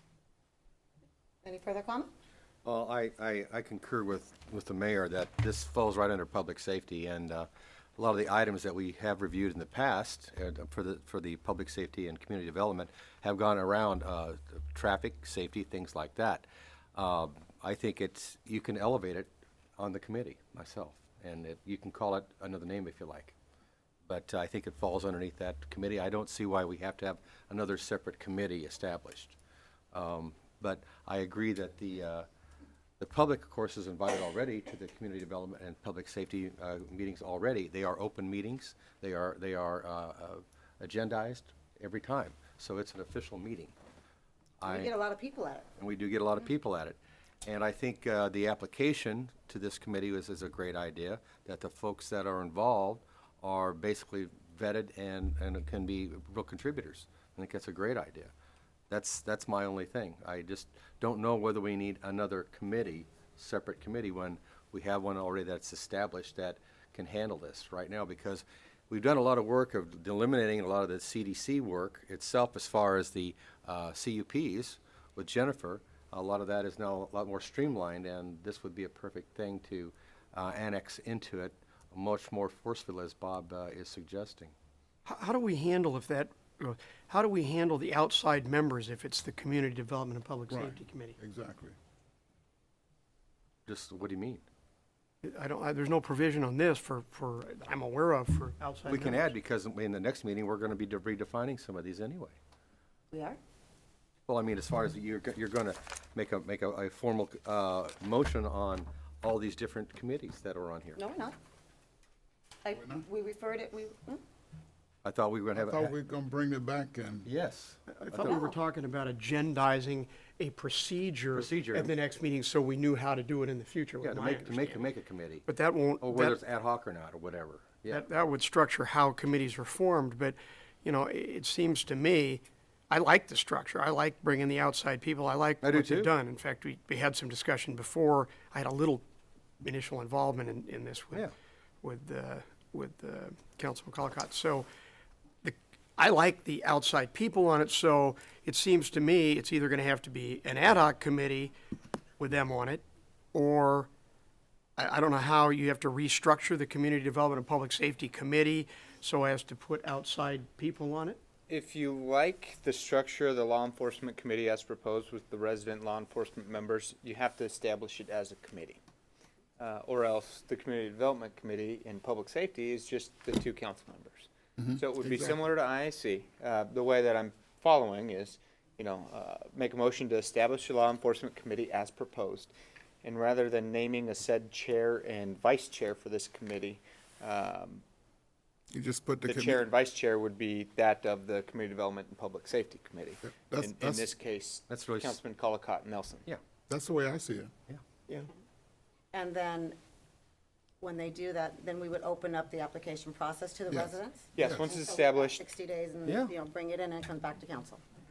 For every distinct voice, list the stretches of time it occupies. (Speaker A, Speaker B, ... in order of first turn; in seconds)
Speaker A: 1.4-2.1, 44.6-45.7, 103.1-103.4, 111.0-111.4, 112.6-114.2, 118.2-118.6, 199.1-199.8, 200.8-207.8
Speaker B: 2.6-23.4, 24.1-29.4, 29.9-32.3, 33.0-43.7, 44.6-44.9, 45.8-58.3, 58.9-84.5, 93.7-94.4, 98.9-102.4, 104.3-111.0, 115.0-115.9, 117.2-118.5, 121.3-121.9, 124.0-125.5, 126.0-128.0, 135.6-136.1, 194.7-195.2, 206.1-206.3
Speaker C: 85.0-91.2, 95.2-99.3, 117.9-124.9, 125.5-126.4, 127.9-139.0, 139.6-141.3, 141.8-144.7, 145.4-151.5, 152.2-152.8, 153.3-153.9, 154.8-161.2
Speaker D: 90.5-91.8, 112.8-113.0, 115.6-117.3, 174.6-175.4, 188.7-189.6, 193.2-194.1, 196.7-197.5, 203.7-204.6
Speaker E: 161.5-168.8, 169.6-182.5, 183.0-187.8, 189.3-196.2, 204.4-205.4